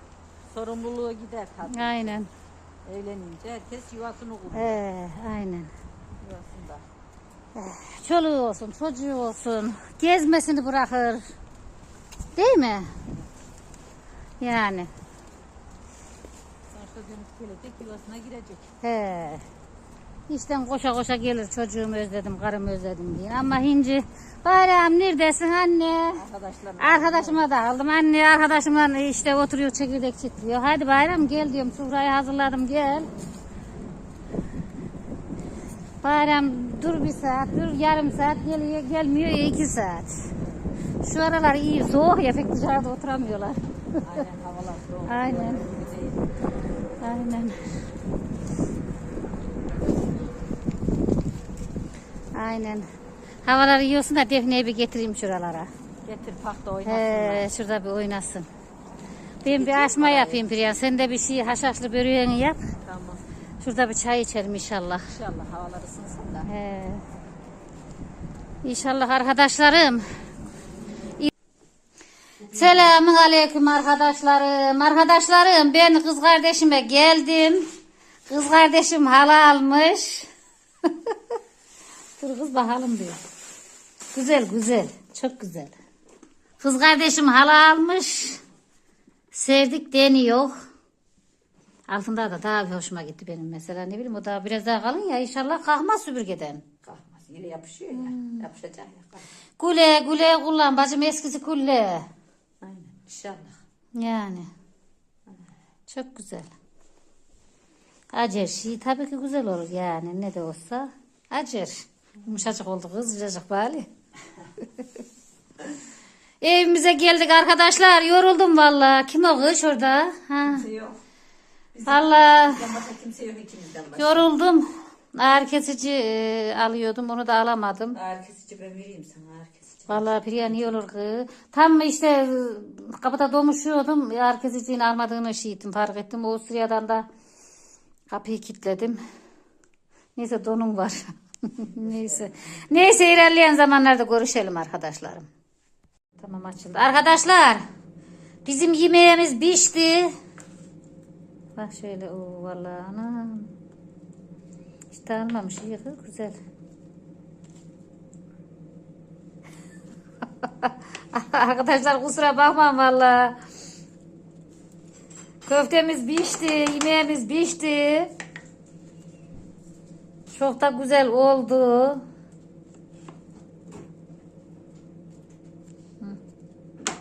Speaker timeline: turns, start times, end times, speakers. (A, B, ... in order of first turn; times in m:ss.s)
0:00.5-0:02.2 A
0:01.7-0:02.3 B
0:02.8-0:04.8 A
0:04.5-0:05.7 B
0:06.2-0:06.8 A
0:07.6-0:11.2 B
0:12.4-0:12.9 B
0:14.4-0:14.9 B
0:16.7-0:18.7 A
0:18.8-0:19.4 B
0:20.3-0:26.2 B
0:26.1-0:27.5 A
0:26.8-0:33.1 B
0:36.0-0:40.2 B
0:41.0-0:43.6 B
0:44.0-0:46.2 A
0:45.1-0:45.6 B
0:47.0-0:47.6 B
0:52.4-0:52.9 B
0:53.4-0:55.7 B
0:56.0-0:57.5 A
0:56.9-0:58.5 B
0:59.4-1:02.7 B
0:59.4-1:00.4 A
1:02.9-1:03.2 A
1:03.6-1:05.1 B
1:05.1-1:06.5 A
1:06.4-1:07.0 B
1:08.6-1:10.0 B
1:12.5-1:17.6 B
1:18.3-1:20.3 B
1:20.9-1:21.2 B
1:22.2-1:23.2 B
1:24.1-1:25.7 B
1:26.6-1:28.4 B
1:29.4-1:30.5 B
1:31.9-1:36.6 B
1:36.8-1:39.2 A
1:38.0-1:38.4 B
1:39.6-1:42.0 B
1:42.6-1:43.6 A
1:44.0-1:44.5 B
1:45.9-1:46.5 B
1:48.2-1:53.9 B
1:56.4-2:00.7 B
2:00.5-2:01.0 A
2:01.7-2:04.3 A
2:01.9-2:02.6 B
2:04.0-2:08.0 B
2:08.0-2:10.1 A
2:09.9-2:17.0 B
2:18.1-2:19.0 B
2:20.2-2:25.3 B
2:26.2-2:27.6 B
2:28.4-2:30.1 B
2:31.6-2:33.5 B
2:34.9-2:36.4 B
2:40.4-2:43.4 B
2:45.5-2:48.1 B
2:50.3-2:52.0 B